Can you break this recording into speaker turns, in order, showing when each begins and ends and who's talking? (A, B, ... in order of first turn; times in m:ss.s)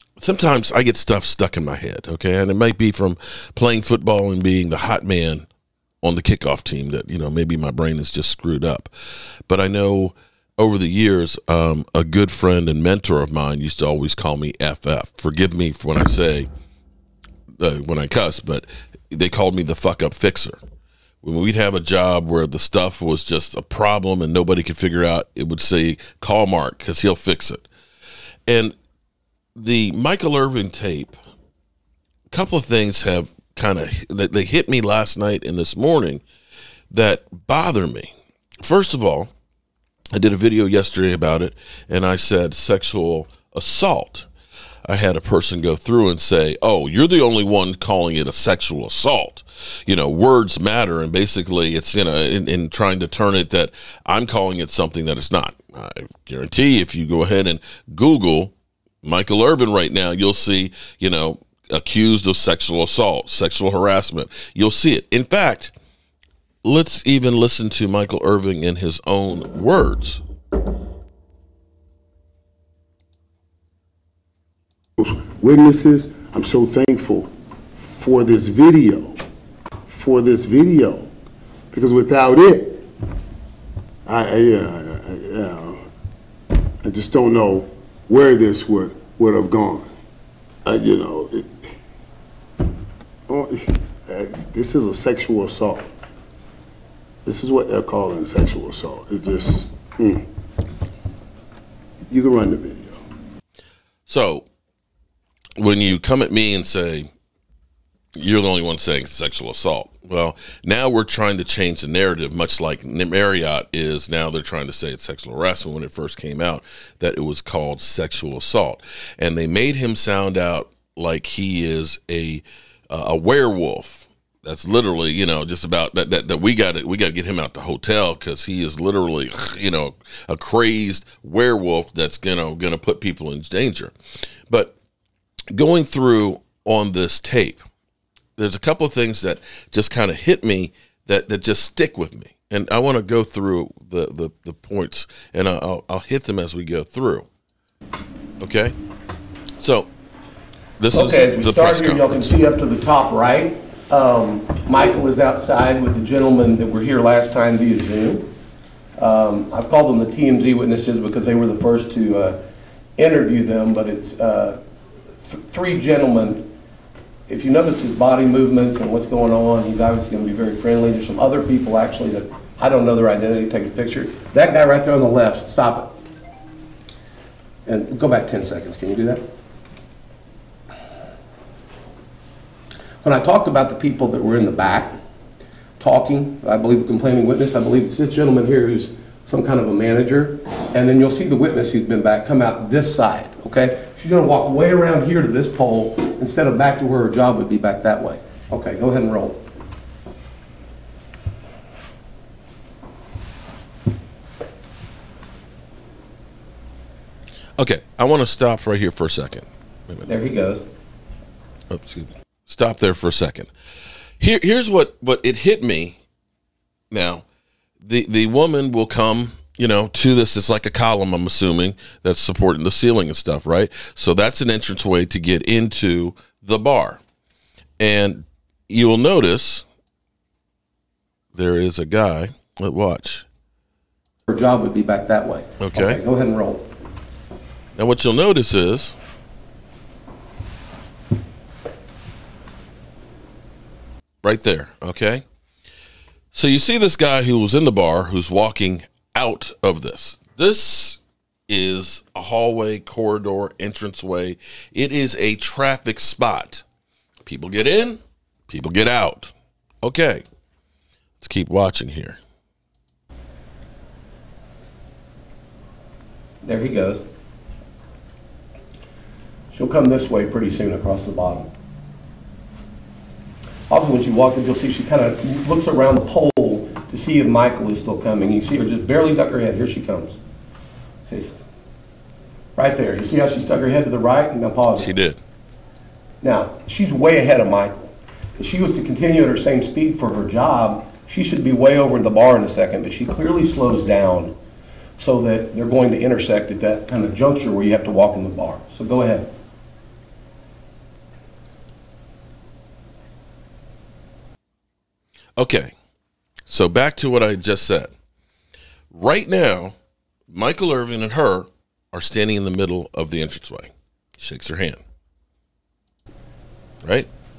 0:00.2-0:05.5 A
0:06.0-0:08.9 A
0:09.5-0:16.5 A
0:17.6-0:20.6 A
0:21.2-0:27.7 A
0:28.5-0:28.8 A
0:29.6-0:31.2 A
0:32.3-0:36.2 A
0:36.9-0:38.1 A
0:38.6-0:39.3 A
0:40.1-0:44.3 A
0:44.8-1:05.7 A
1:06.6-1:10.2 A
1:15.0-1:19.2 B
1:19.9-1:21.1 B
1:21.7-1:22.8 B
1:24.0-1:25.8 B
1:26.8-1:29.9 B
1:30.6-1:31.7 B
1:33.3-1:35.9 B
1:37.2-1:40.3 B
1:42.1-1:43.0 B
1:44.1-1:44.4 A
1:45.6-1:47.1 A
1:48.2-2:13.9 A
2:14.5-2:14.8 A
2:15.5-2:17.6 A
2:18.4-2:27.3 A
2:28.4-2:28.7 A
2:29.6-2:29.9 A
2:30.8-2:32.3 A
2:30.9-2:38.3 C
2:39.0-2:42.4 C
2:43.0-2:44.6 C
2:45.2-2:46.5 C
2:47.3-2:55.9 C
2:57.6-2:59.2 C
3:03.0-3:04.9 C
3:05.8-3:19.4 C
3:27.6-3:30.1 A
3:30.1-3:30.6 C
3:31.7-3:33.5 A
3:34.2-3:36.0 A
3:36.9-3:37.2 A
3:37.8-3:47.0 A
3:47.8-3:49.6 A
3:51.3-3:53.2 A
3:54.3-3:56.7 C
3:55.6-3:56.0 A
3:57.8-3:58.9 A
4:04.2-4:05.2 A
4:06.3-4:16.6 A
4:17.2-4:20.2 A
4:21.2-4:22.2 A
4:26.4-4:27.0 C
4:29.5-4:31.5 C
4:33.7-4:40.2 C
4:41.1-4:41.4 C
4:42.6-4:44.9 C
4:44.8-4:45.2 A
4:46.2-4:54.3 C
4:55.0-4:59.3 C
5:05.4-5:05.7 A
5:06.5-5:07.9 A
5:08.9-5:09.7 A
5:10.3-5:14.8 A
5:16.8-5:17.1 A